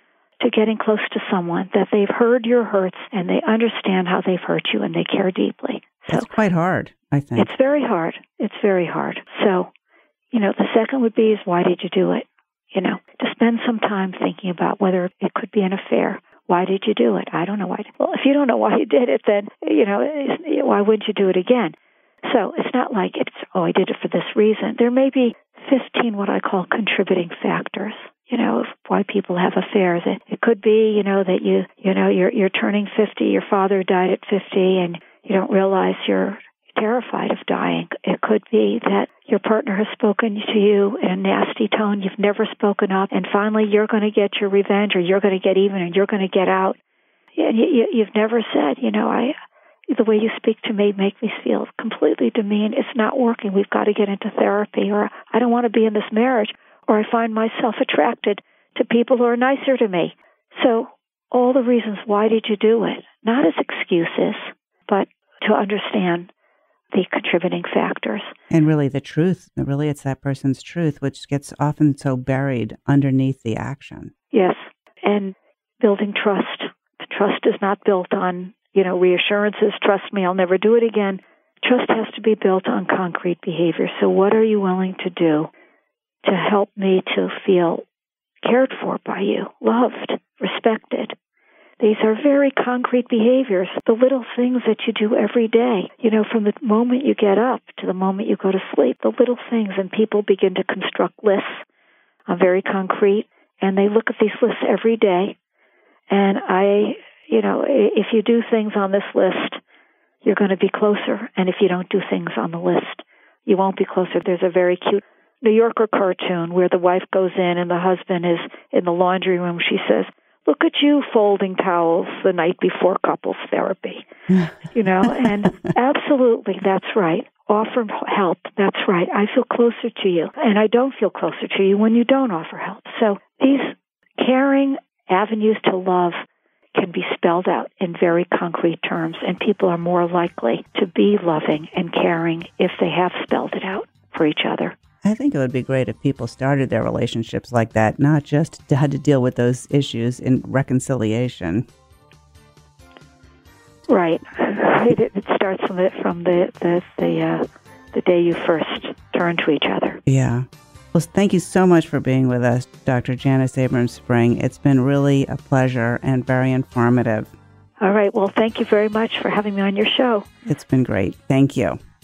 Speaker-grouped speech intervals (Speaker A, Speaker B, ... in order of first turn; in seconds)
Speaker A: 0.4-6.3, 7.3-9.7, 10.3-46.8, 47.4-49.3, 49.9-66.3, 66.9-68.3, 74.3-85.5, 86.2-87.8, 88.4-91.1, 91.8-101.6, 102.3-105.3, 106.1-109.6, 110.2-124.1, 124.6-136.2, 136.7-144.7, 153.9-160.0, 167.8-170.3
Speaker B: 6.1-7.5, 68.5-74.1, 145.0-151.7, 160.1-167.3, 170.4-171.8